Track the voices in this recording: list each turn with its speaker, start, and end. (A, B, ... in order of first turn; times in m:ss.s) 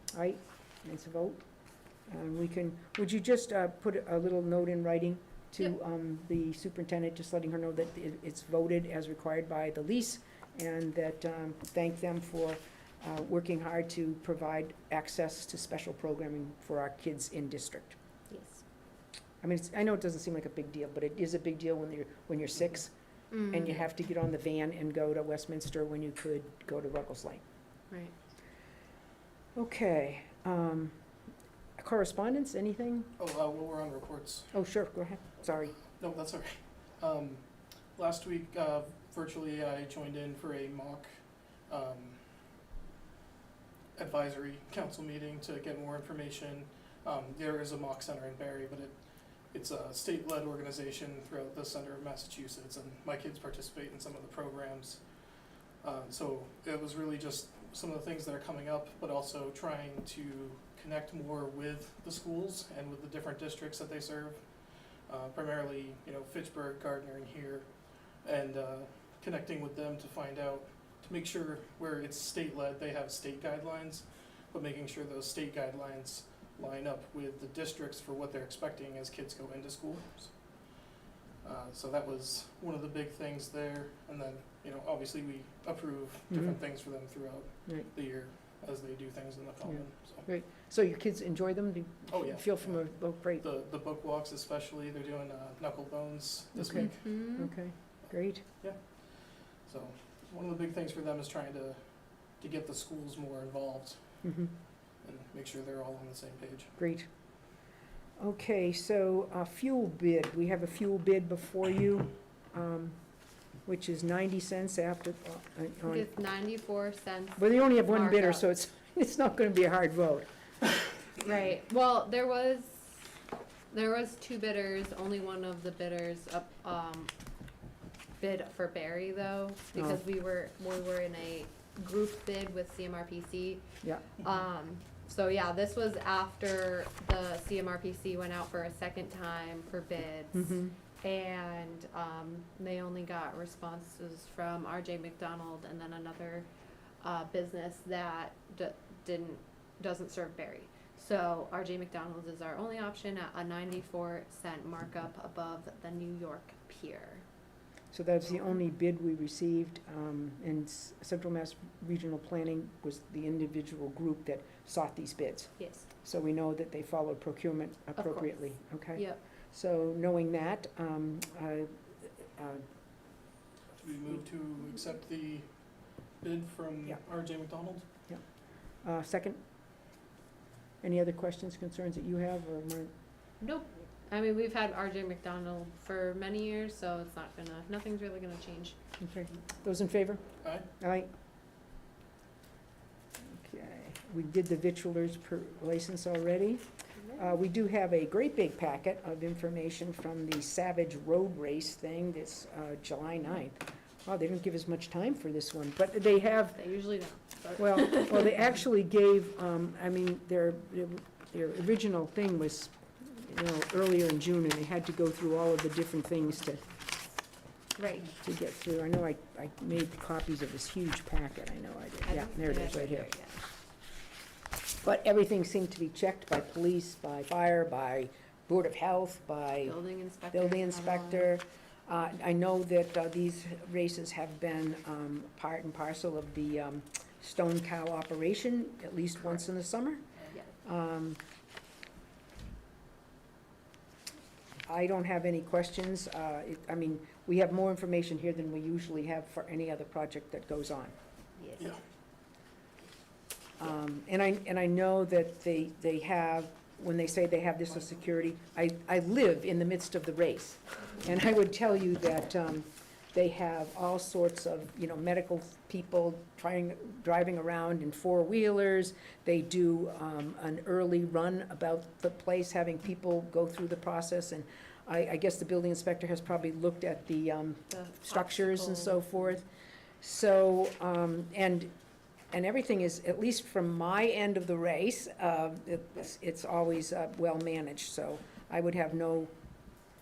0:00.1-0:01.4 A
0:02.1-0:18.0 A
0:18.3-0:18.6 B
0:19.4-0:22.9 A
0:23.3-0:23.8 B
0:23.4-0:27.4 A
0:29.6-0:30.9 A
0:31.8-0:33.1 A
0:33.2-0:34.5 C
0:34.5-0:35.8 A
0:36.0-0:37.4 C
0:38.0-0:41.1 C
0:41.7-0:42.2 C
0:44.0-0:55.0 C
0:55.8-1:04.6 C
1:05.1-1:07.7 C
1:08.2-1:20.4 C
1:21.4-1:30.3 C
1:26.3-1:26.6 A
1:29.7-1:33.4 A
1:32.1-1:37.0 C
1:36.6-1:38.4 A
1:36.7-1:37.5 B
1:38.6-1:44.0 C
1:44.2-1:44.5 A
1:45.0-1:46.7 C
1:46.8-1:47.1 A
1:48.2-1:53.0 A
1:53.6-1:56.1 A
1:55.8-1:58.5 B
1:57.4-2:00.3 A
2:01.2-2:03.0 B
2:03.7-2:07.1 B
2:08.2-2:13.7 B
2:09.7-2:10.0 A
2:13.8-2:14.1 A
2:14.2-2:26.5 B
2:20.3-2:20.7 A
2:27.0-2:37.2 B
2:37.9-2:52.6 A
2:45.6-2:45.9 B
2:48.0-2:49.2 B
2:53.8-2:57.8 C
2:58.8-2:59.4 A
3:00.8-3:02.9 A
3:03.4-3:08.8 B
3:09.0-3:10.2 A
3:10.8-3:11.1 A
3:13.2-3:16.6 A
3:17.0-3:17.4 B
3:17.2-3:26.6 A
3:26.5-3:28.4 B
3:27.6-3:36.6 A
3:37.8-3:38.1 B
3:38.2-3:43.1 A
3:42.0-3:43.5 B
3:44.8-3:49.8 A
3:49.6-3:51.4 B
3:50.3-4:00.0 A
4:00.6-4:01.2 A
4:04.7-4:11.0 A
4:11.4-4:11.7 B
4:13.6-4:39.4 A
4:37.7-4:39.3 B
4:40.0-4:41.7 A
4:42.3-4:49.3 A